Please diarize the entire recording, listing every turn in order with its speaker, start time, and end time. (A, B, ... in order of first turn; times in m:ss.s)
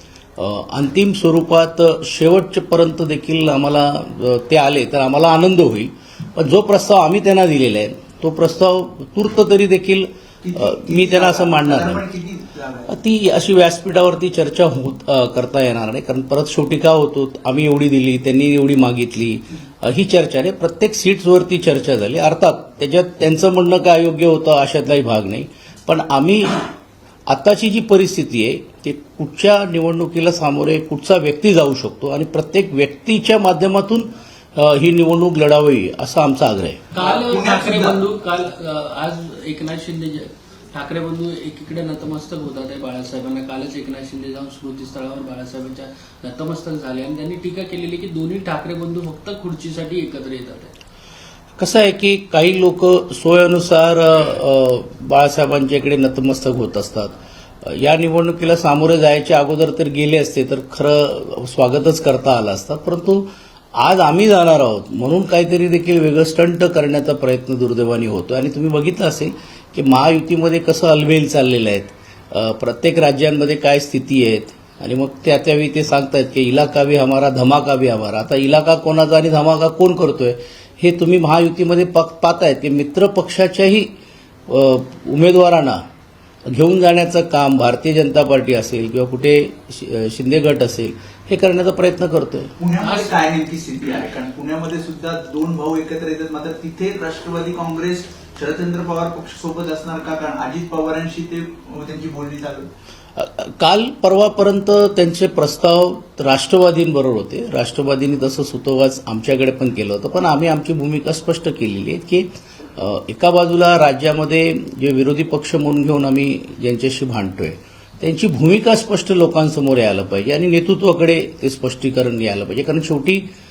0:00.4-0:12.0 A
0:10.4-0:12.9 B
0:12.9-0:26.7 A
0:27.3-0:36.8 A
0:36.9-0:50.7 C
0:37.0-0:38.0 B
0:51.6-1:23.9 A
1:24.5-1:25.8 A
1:26.5-1:32.5 A
1:32.6-1:42.7 B
1:32.8-1:33.2 C
1:43.2-2:03.3 A